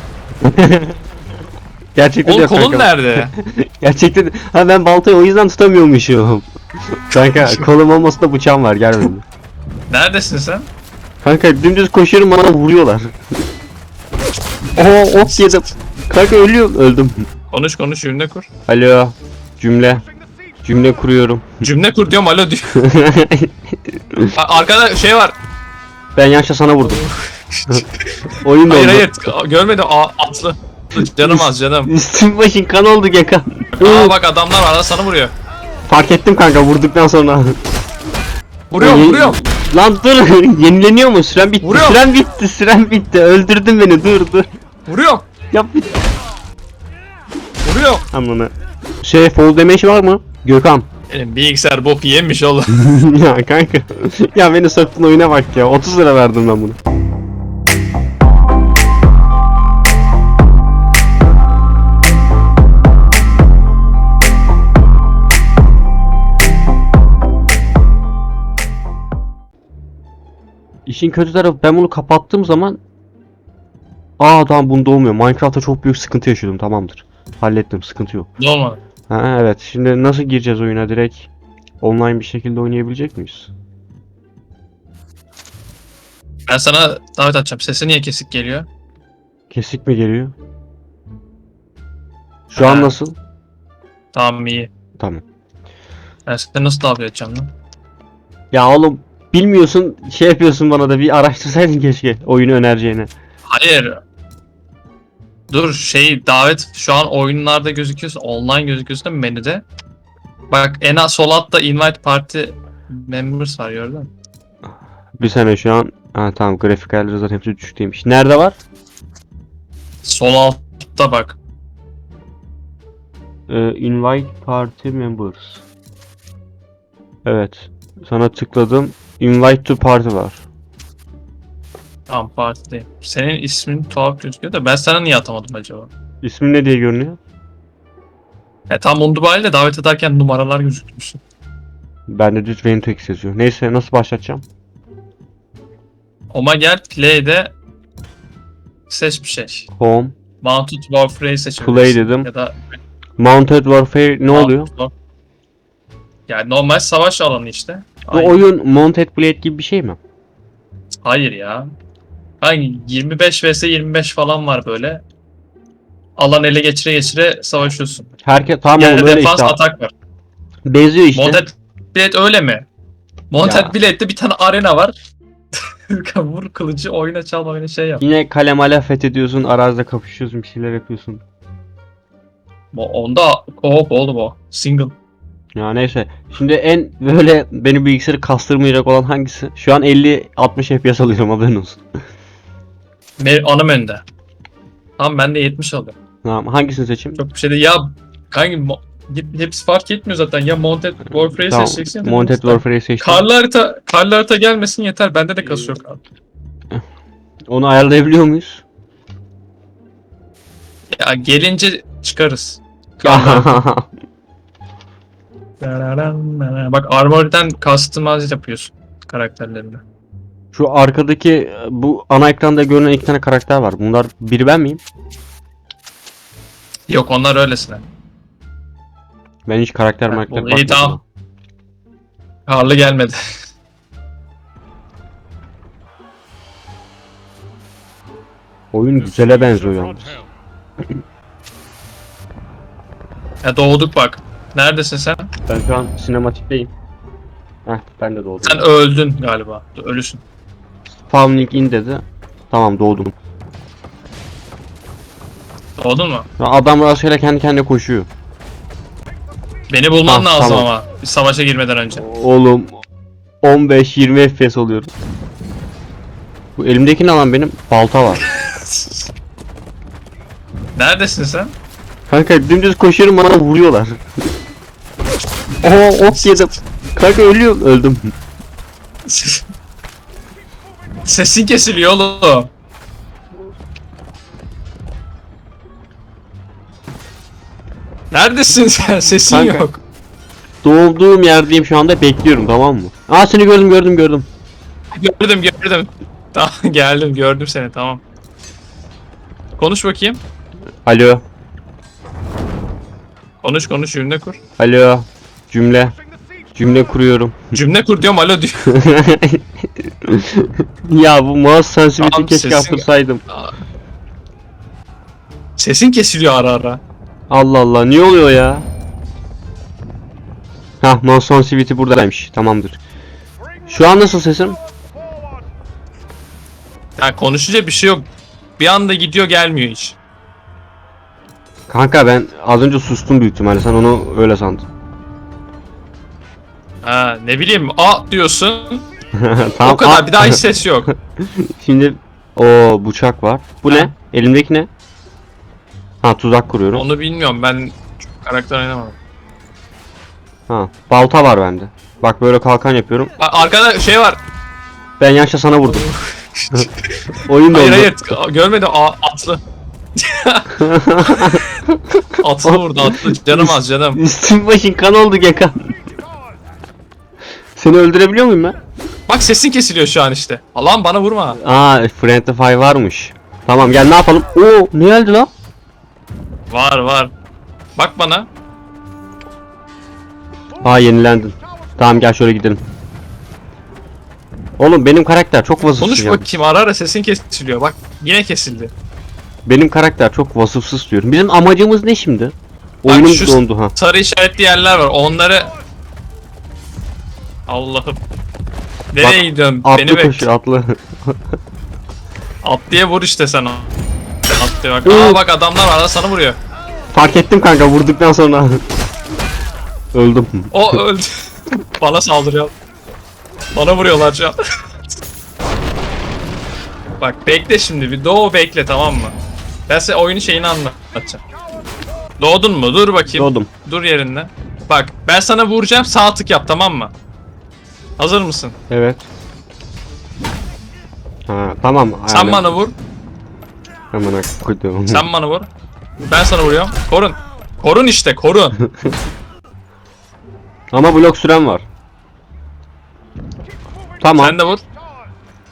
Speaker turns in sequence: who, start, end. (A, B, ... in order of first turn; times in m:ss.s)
0:00.4-0:01.0 A
0:02.0-0:09.2 A
0:02.2-0:03.3 B
0:09.9-0:10.7 B
0:11.2-0:13.1 A
0:14.8-0:17.3 A
0:17.5-0:18.5 B
0:18.7-0:20.0 A
0:20.6-0:21.6 A
0:21.6-0:22.8 B
0:22.8-0:23.6 A
0:24.4-0:25.4 B
0:26.2-0:27.0 A
0:26.8-0:31.9 B
0:28.4-0:29.1 A
0:31.0-0:34.2 A
0:33.8-0:35.3 B
0:35.9-0:37.6 A
0:38.7-0:39.4 B
0:38.8-0:44.4 A
0:41.6-0:42.0 B
0:44.9-0:45.3 B
0:45.5-0:46.0 A
0:47.6-0:48.0 B
0:48.1-0:48.5 A
0:49.0-0:50.9 A
0:51.1-0:52.8 B
0:52.7-0:56.8 A
1:10.9-1:12.8 A
1:14.2-1:18.3 A
1:18.4-1:18.8 B
1:19.1-1:21.3 A
1:21.8-1:23.5 A
1:26.5-1:28.7 B
1:29.5-1:30.3 A
1:32.5-1:33.2 A
1:32.6-1:33.0 B
1:34.1-1:34.7 B
1:35.0-1:35.2 A
1:36.2-1:37.5 B
1:38.5-1:43.1 A
1:43.5-1:44.0 B
1:45.5-1:49.6 B
1:50.5-1:54.1 B
1:55.2-1:58.6 A
2:00.0-2:01.4 B
2:03.5-2:05.6 A
2:07.2-2:10.4 A
2:12.1-2:15.9 B
2:16.2-2:17.2 A
2:18.7-2:21.2 B
2:22.1-2:24.4 A
2:26.3-2:27.5 B
2:28.9-2:29.7 B
2:29.8-2:30.2 A
2:30.4-2:32.8 B
2:31.6-2:32.3 A
2:33.2-2:34.7 A
2:34.3-2:34.9 B
2:36.3-2:38.4 B
2:38.1-2:40.0 A
2:41.0-2:41.7 B
2:42.4-2:45.0 B
2:46.2-2:48.1 B
2:48.2-2:49.6 A
2:48.8-2:49.9 B
2:50.7-2:51.4 A
2:51.2-2:52.7 B
2:53.3-2:55.0 B
2:53.4-2:53.7 A
2:55.5-2:58.0 B
2:58.0-3:01.2 A
3:02.7-3:04.9 B
3:05.6-3:11.8 A
3:13.2-3:14.0 B
3:15.0-3:15.9 B
3:16.2-3:17.2 A
3:17.2-3:26.0 B
3:21.2-3:23.3 A
3:27.5-3:28.6 A
3:30.9-3:33.6 B
3:33.0-3:33.9 A
3:35.6-3:39.8 B
3:40.5-3:44.8 A
3:46.9-3:47.8 B
3:49.5-3:51.0 A
3:50.1-3:51.0 B
3:52.5-3:53.2 B
3:58.7-4:00.2 A
4:03.4-4:05.3 B
4:05.5-4:06.7 A
4:07.7-4:08.7 A
4:08.4-4:10.2 B
4:11.0-4:13.1 A
4:15.8-4:16.3 B
4:16.4-4:18.1 A
4:19.7-4:22.0 B
4:20.0-4:20.7 A
4:22.0-4:22.8 A
4:23.4-4:24.9 A
4:26.6-4:28.2 A
4:28.2-4:29.0 B
4:30.8-4:31.5 B
4:32.1-4:34.0 A
4:35.6-4:38.1 A
4:36.0-4:36.6 B
4:39.0-4:39.4 B
4:41.0-4:42.5 B
4:48.1-4:49.8 B
4:49.3-4:49.6 A
4:50.6-4:54.3 A
4:54.9-4:58.0 B
4:59.6-5:00.2 B
5:00.8-5:01.2 A
5:03.4-5:04.4 B
5:04.6-5:05.9 A
5:06.5-5:07.5 A
5:07.5-5:08.7 B
5:08.7-5:13.2 A
5:12.0-5:13.5 B
5:15.6-5:16.8 B
5:17.3-5:18.7 A
5:20.8-5:22.8 A
5:23.7-5:24.6 A
5:27.0-5:30.0 B
5:31.7-5:34.6 A
5:36.8-5:38.8 B
5:39.2-5:40.4 A
5:39.6-5:40.9 B
5:41.2-5:44.7 A
5:43.7-5:43.9 B
5:46.0-5:46.8 A
5:46.7-5:49.0 B
5:50.5-5:53.1 A
5:53.2-5:54.2 B
5:55.0-5:55.9 A
5:55.7-5:59.4 B
5:57.3-5:57.9 A
6:00.0-6:01.6 B
6:00.6-6:05.7 A
6:02.2-6:04.0 B
6:07.6-6:08.6 A
6:09.1-6:11.4 B
6:11.4-6:15.3 A
6:16.5-6:17.1 B
6:17.8-6:18.3 B
6:20.6-6:22.6 A
6:24.6-6:26.3 A
6:25.8-6:28.7 B
6:29.4-6:33.7 A
6:32.9-6:35.5 B
6:37.5-6:38.0 B
6:38.9-6:40.3 B
6:39.0-6:41.2 A
6:42.4-6:43.7 B
6:44.3-6:46.4 B
6:44.8-6:45.2 A
6:46.9-6:48.6 A
6:49.9-6:50.8 A
6:50.5-6:52.5 B
6:53.5-6:54.4 B
6:57.0-6:59.1 B
6:59.7-7:01.2 B
7:02.2-7:06.9 B
7:03.1-7:03.5 A
7:08.0-7:08.5 B
7:08.7-7:09.0 A
7:11.3-7:12.5 A
7:12.1-7:12.7 B
7:13.9-7:15.1 A
7:14.9-7:15.5 B
7:16.0-7:18.6 B
7:20.7-7:21.6 A
7:24.0-7:24.4 A
7:24.2-7:24.6 B